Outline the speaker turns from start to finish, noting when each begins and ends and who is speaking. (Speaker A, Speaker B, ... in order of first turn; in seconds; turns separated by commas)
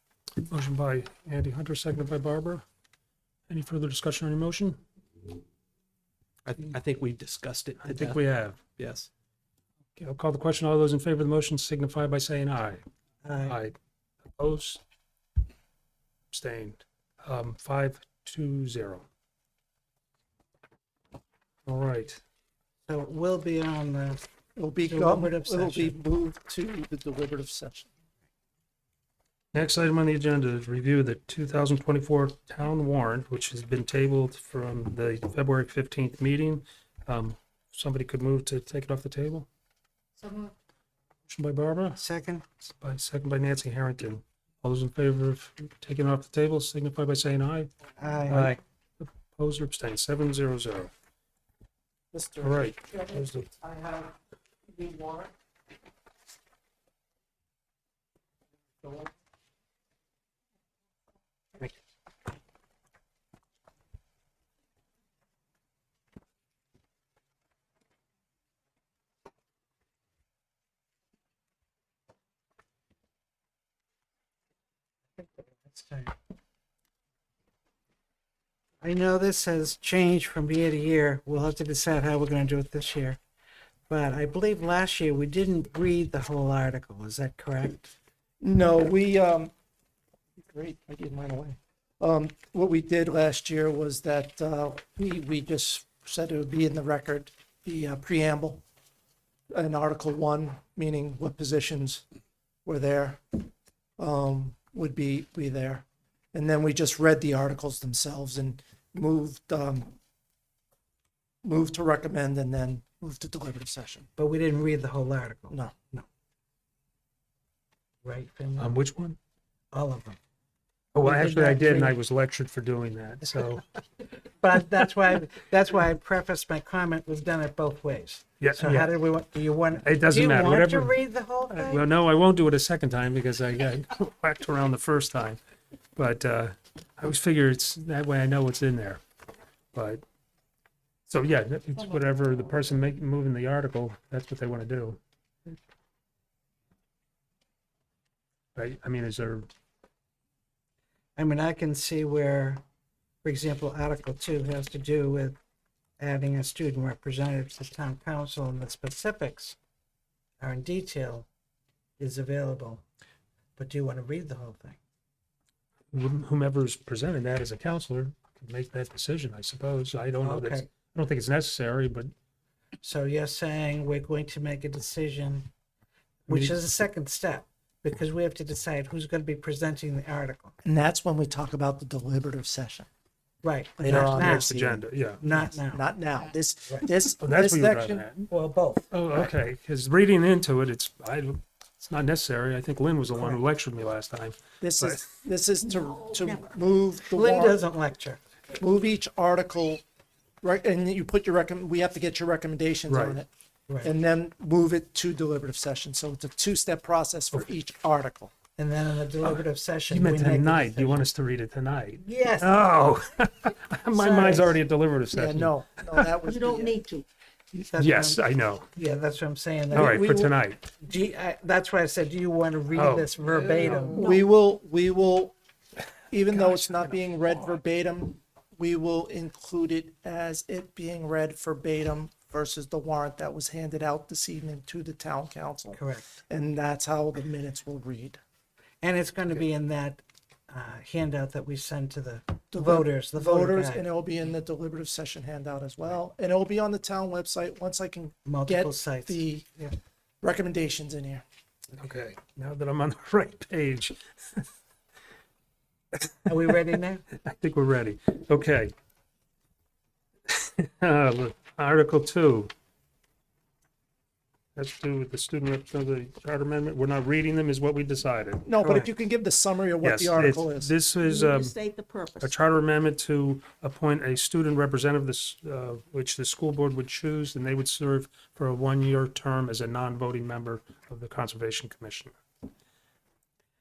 Speaker A: 0.5-2.6, Speaker A: 3.5-4.8, Speaker B: 6.5-8.2, Speaker A: 7.8-8.6, Speaker B: 8.8-9.1, Speaker A: 10.0-12.8, Speaker C: 13.2-13.6, Speaker A: 13.4-13.8, Speaker A: 14.4-14.8, Speaker A: 16.3-19.1, Speaker A: 21.7-22.2, Speaker C: 22.9-24.2, Speaker D: 24.6-27.9, Speaker C: 24.8-26.0, Speaker A: 29.5-39.5, Speaker E: 40.2-40.5, Speaker A: 41.3-42.0, Speaker C: 42.0-42.5, Speaker A: 42.8-47.7, Speaker C: 48.0-48.4, Speaker A: 48.3-50.9, Speaker B: 48.3-48.6, Speaker D: 52.1-54.1, Speaker A: 52.4-53.5, Speaker D: 54.7-55.3, Speaker D: 58.8-59.1, Speaker C: 75.2-76.2, Speaker C: 78.8-83.2, Speaker C: 83.9-87.9, Speaker D: 88.4-89.5, Speaker D: 90.4-98.6, Speaker D: 99.5-102.0, Speaker D: 102.7-103.5, Speaker D: 104.0-110.0, Speaker D: 111.4-114.1, Speaker C: 114.2-116.1, Speaker C: 118.0-118.8, Speaker A: 118.6-119.2, Speaker C: 119.7-120.2, Speaker A: 121.0-123.6, Speaker C: 121.0-122.0, Speaker C: 124.4-131.8, Speaker A: 128.4-128.9, Speaker A: 129.8-131.0, Speaker A: 131.5-135.4, Speaker A: 136.0-139.0, Speaker A: 139.7-140.0, Speaker A: 141.1-145.0, Speaker A: 148.6-149.5, Speaker C: 151.2-152.6, Speaker C: 153.2-155.4, Speaker C: 156.0-159.6, Speaker C: 160.4-161.3, Speaker C: 162.0-162.8, Speaker C: 163.6-164.8, Speaker A: 165.9-172.1, Speaker C: 170.2-170.7, Speaker C: 172.8-175.5, Speaker C: 176.3-180.5, Speaker A: 176.3-176.6, Speaker D: 180.7-182.9, Speaker C: 183.4-184.5, Speaker D: 183.8-188.1, Speaker A: 183.9-185.2, Speaker C: 185.2-185.9, Speaker A: 187.2-188.3, Speaker C: 188.3-188.9, Speaker A: 188.9-195.1, Speaker D: 194.6-197.6, Speaker C: 197.1-198.2, Speaker D: 198.6-199.8, Speaker D: 200.4-203.3, Speaker A: 202.9-203.2, Speaker C: 203.7-203.9, Speaker D: 203.8-208.3, Speaker C: 208.6-211.1, Speaker A: 209.2-216.1, Speaker C: 212.0-212.6, Speaker C: 213.9-214.6, Speaker D: 215.1-216.8, Speaker E: 216.3-217.1, Speaker C: 217.6-218.2, Speaker A: 217.8-218.7, Speaker C: 218.7-220.1, Speaker D: 219.7-220.3, Speaker A: 219.7-220.6, Speaker C: 220.8-224.1, Speaker A: 222.8-223.1, Speaker D: 223.9-225.4, Speaker D: 226.1-238.2, Speaker C: 235.7-236.1, Speaker C: 238.8-243.8, Speaker D: 242.5-249.5, Speaker C: 248.2-249.7, Speaker D: 250.2-251.2, Speaker A: 251.7-254.4, Speaker C: 256.2-257.0, Speaker A: 257.2-258.7, Speaker A: 260.3-262.5, Speaker A: 264.6-268.5, Speaker D: 268.4-270.7, Speaker C: 268.6-268.9, Speaker A: 269.8-271.6, Speaker E: 271.0-272.3, Speaker A: 272.2-282.1